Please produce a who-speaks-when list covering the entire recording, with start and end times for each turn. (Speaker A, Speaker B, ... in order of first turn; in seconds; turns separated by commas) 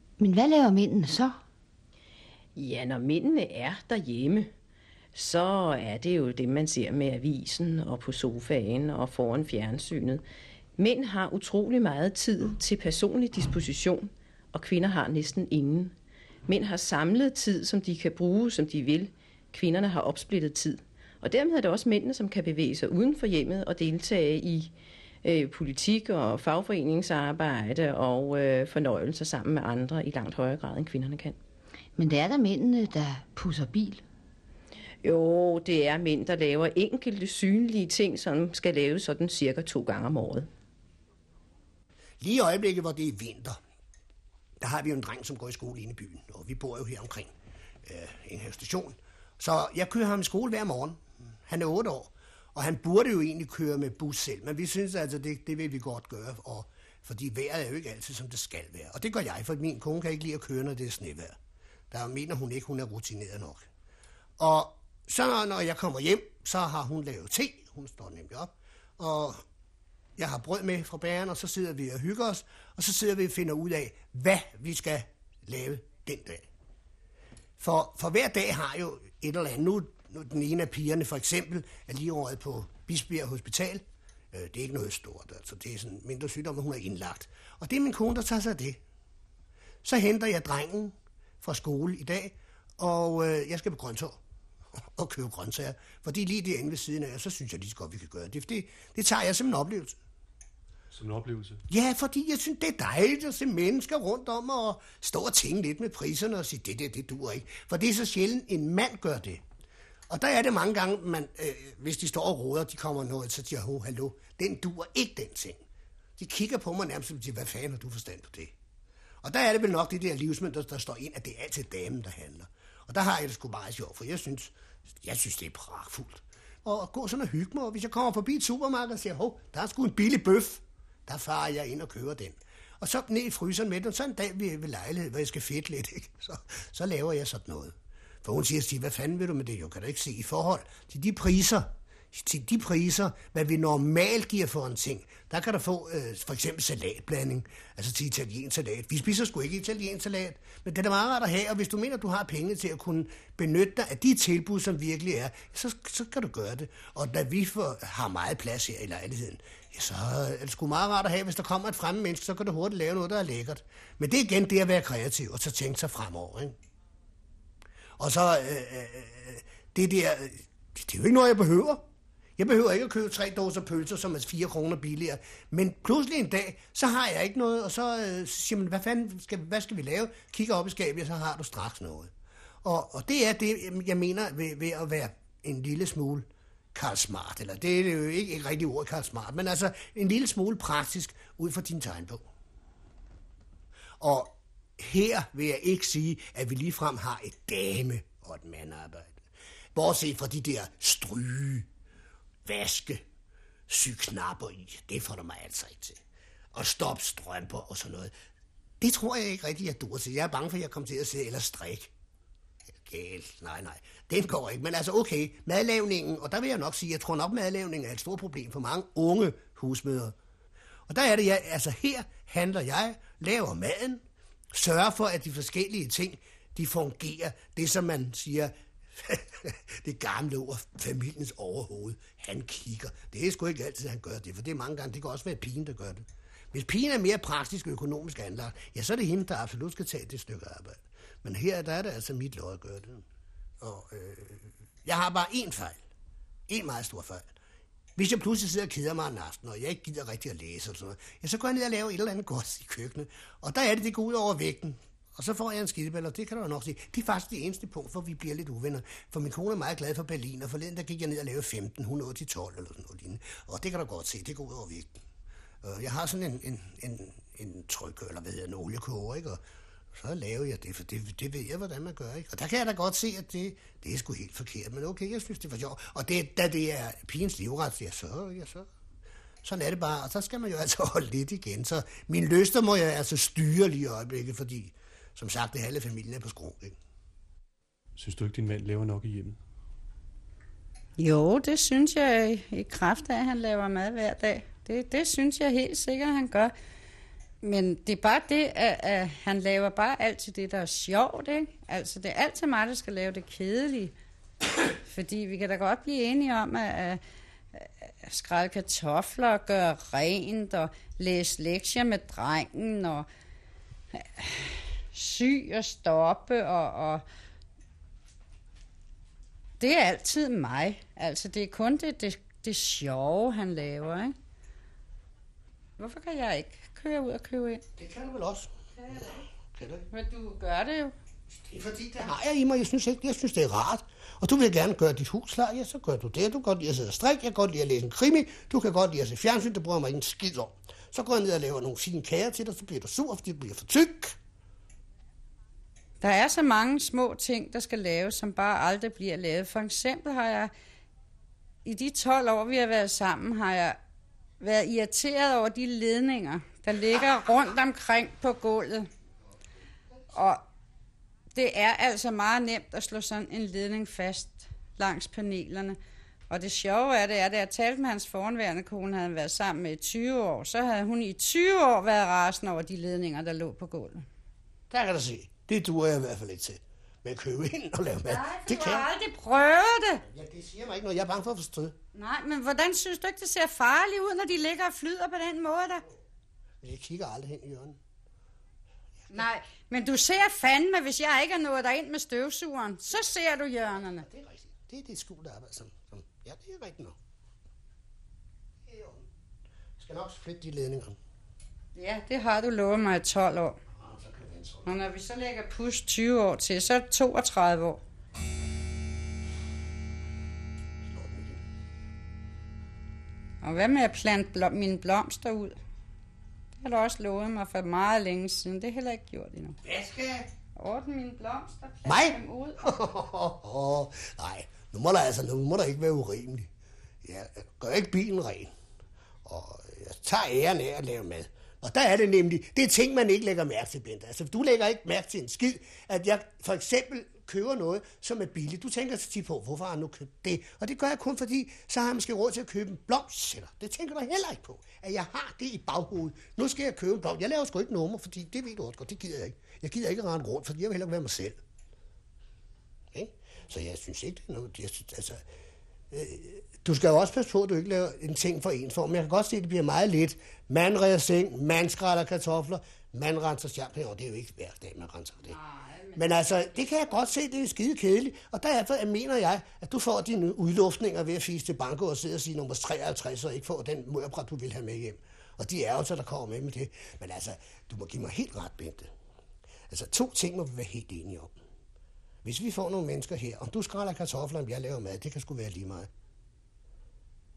Speaker A: 0.2-1.4, Speaker B: 2.6-4.5, Speaker B: 5.2-10.2, Speaker B: 10.8-15.9, Speaker B: 16.5-24.7, Speaker B: 25.2-31.4, Speaker A: 32.0-34.0, Speaker B: 35.0-40.5, Speaker C: 42.2-43.6, Speaker C: 44.6-47.3, Speaker C: 47.9-61.4, Speaker C: 61.9-63.7, Speaker C: 64.4-69.4, Speaker C: 70.2-76.5, Speaker C: 77.6-88.8, Speaker C: 89.8-94.2, Speaker C: 95.0-100.0, Speaker D: 100.9-101.6, Speaker C: 101.7-109.4, Speaker C: 110.1-115.6, Speaker C: 116.2-118.5, Speaker C: 119.2-166.6, Speaker C: 168.0-171.8, Speaker C: 172.4-182.1, Speaker C: 182.6-192.2, Speaker C: 194.0-199.2, Speaker C: 199.8-201.7, Speaker C: 202.4-203.0, Speaker C: 203.7-206.0, Speaker C: 206.5-208.1, Speaker C: 208.8-211.9, Speaker C: 212.8-220.1, Speaker C: 220.9-243.0, Speaker C: 243.6-245.8, Speaker C: 246.5-247.3, Speaker C: 248.0-265.0, Speaker C: 265.6-269.4, Speaker C: 269.9-278.7, Speaker C: 279.4-286.8, Speaker D: 288.0-289.4, Speaker E: 291.0-296.5, Speaker E: 297.4-303.9, Speaker E: 304.8-307.0, Speaker E: 307.5-313.1, Speaker E: 313.9-317.0, Speaker E: 319.6-324.1, Speaker E: 325.8-327.6, Speaker C: 327.8-329.9, Speaker E: 328.8-329.1, Speaker E: 329.9-330.9, Speaker C: 331.4-344.2, Speaker E: 346.0-350.5, Speaker E: 351.6-353.8, Speaker E: 354.4-358.9, Speaker E: 360.1-360.4, Speaker E: 361.3-365.8, Speaker E: 366.3-374.1, Speaker C: 374.7-378.9, Speaker E: 378.1-380.0, Speaker C: 380.1-381.8, Speaker E: 381.9-385.8, Speaker C: 386.6-387.8, Speaker E: 389.1-394.1, Speaker C: 394.0-397.0, Speaker C: 398.7-399.1, Speaker C: 399.8-401.0, Speaker E: 401.8-403.6, Speaker C: 403.7-404.8, Speaker E: 404.7-407.8, Speaker C: 410.8-411.4, Speaker E: 413.4-415.6, Speaker E: 416.6-419.6, Speaker C: 419.6-420.3, Speaker E: 420.6-422.6, Speaker C: 421.9-426.5, Speaker C: 427.0-428.5, Speaker C: 429.2-451.4, Speaker C: 452.9-455.2, Speaker C: 455.9-465.4, Speaker E: 465.3-466.2, Speaker C: 466.0-478.9, Speaker C: 479.7-481.4, Speaker C: 482.2-485.9